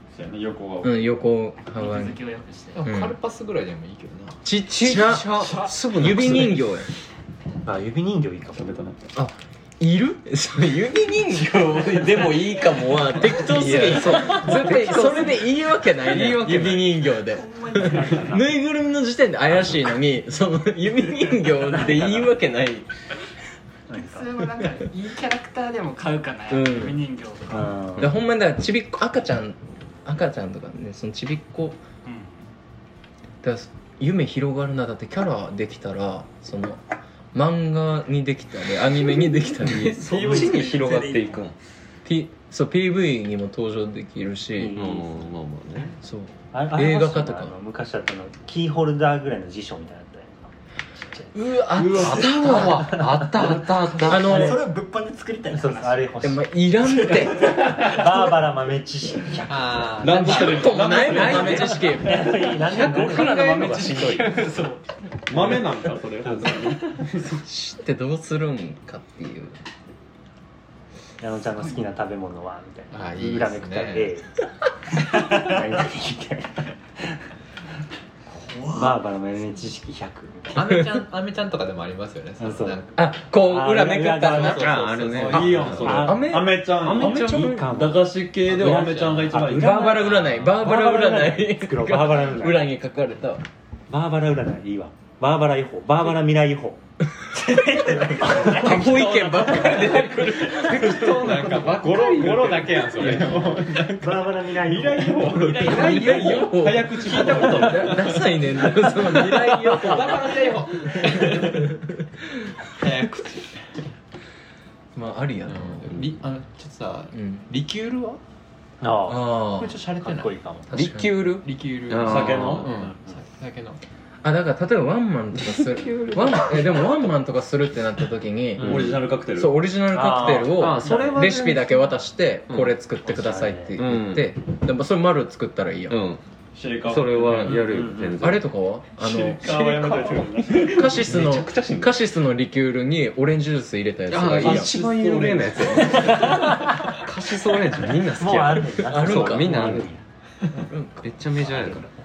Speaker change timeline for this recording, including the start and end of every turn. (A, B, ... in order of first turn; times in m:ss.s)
0:00.1-0:01.0 A
0:00.8-0:02.2 B
0:01.6-0:02.8 C
0:02.7-0:06.6 D
0:02.8-0:03.2 B
0:04.4-0:05.4 B
0:05.3-0:05.5 E
0:05.9-0:06.9 B
0:07.6-0:08.8 F
0:08.5-0:09.1 A
0:09.1-0:22.9 B
0:13.4-0:16.9 D
0:13.7-0:14.2 C
0:17.3-0:18.4 C
0:17.8-0:18.5 F
0:21.5-0:22.4 F
0:23.9-0:24.3 F
0:23.9-0:27.8 C
0:26.5-0:27.0 B
0:27.5-0:28.2 F
0:28.0-0:31.8 B
0:32.0-0:32.4 C
0:33.4-0:36.8 B
0:37.3-0:40.1 B
0:39.7-0:41.5 E
0:39.9-0:41.5 C
0:42.0-0:44.7 B
0:44.6-0:45.3 F
0:44.7-0:46.0 E
0:46.0-0:47.5 B
0:46.5-0:51.4 F
0:51.3-0:52.9 B
0:51.7-0:52.7 A
0:51.9-0:54.6 E
0:52.1-0:54.6 F
0:54.0-0:54.6 B
0:54.3-0:56.1 C
0:55.5-0:56.5 F
0:56.2-0:57.5 B
0:56.9-0:57.7 C
0:57.4-1:03.5 F
0:59.5-1:01.8 D
1:00.0-1:02.0 A
1:00.1-1:04.8 B
1:02.7-1:04.4 C
1:05.3-1:07.4 A
1:05.3-1:05.7 B
1:06.2-1:06.6 F
1:07.3-1:09.6 B
1:11.2-1:14.3 F
1:12.9-1:14.1 D
1:14.9-1:17.1 F
1:15.2-1:15.4 C
1:18.3-1:19.0 C
1:18.7-1:20.8 F
1:20.5-1:23.0 D
1:20.6-1:21.0 B
1:22.4-1:22.8 F
1:22.9-1:24.7 B
1:23.4-1:32.7 F
1:24.3-1:25.9 D
1:24.5-1:26.0 E
1:25.2-1:30.0 A
1:25.3-1:27.6 B
1:26.8-1:27.3 E
1:28.5-1:29.5 D
1:29.6-1:33.4 B
1:30.0-1:30.6 D
1:33.9-1:36.8 F
1:37.5-1:38.8 C
1:38.0-1:38.6 F
1:38.5-1:41.9 B
1:38.8-1:48.3 A
1:39.4-1:43.5 D
1:41.8-1:42.7 E
1:43.1-1:43.4 B
1:43.9-1:45.8 F
1:45.2-1:51.7 D
1:45.6-1:53.2 B
1:52.8-1:53.8 D
1:54.9-1:56.0 B
1:55.4-1:58.2 D
1:55.9-1:56.1 E
1:57.1-1:57.5 B
1:58.8-1:59.5 F
1:59.1-1:59.8 B
1:59.6-2:03.8 D
2:00.0-2:00.7 F
2:00.7-2:01.2 B
2:00.7-2:02.9 E
2:02.0-2:02.7 A
2:02.6-2:03.2 F
2:04.2-2:16.0 B
2:05.4-2:06.9 E
2:08.6-2:09.0 F
2:08.6-2:09.6 A
2:09.9-2:11.4 F
2:10.5-2:11.9 E
2:12.5-2:12.7 E
2:13.0-2:13.8 F
2:13.8-2:14.3 E
2:15.9-2:16.2 E
2:16.5-2:17.9 A
2:16.8-2:18.5 E
2:17.3-2:17.6 B
2:17.7-2:18.4 F
2:18.2-2:19.5 B
2:19.0-2:22.0 A
2:19.5-2:20.2 F
2:20.5-2:24.8 B
2:24.1-2:29.9 E
2:24.2-2:26.1 A
2:25.6-2:27.0 F
2:27.8-2:30.0 F
2:28.8-2:29.6 B
2:30.7-2:31.1 B
2:31.0-2:31.8 E
2:31.4-2:31.9 F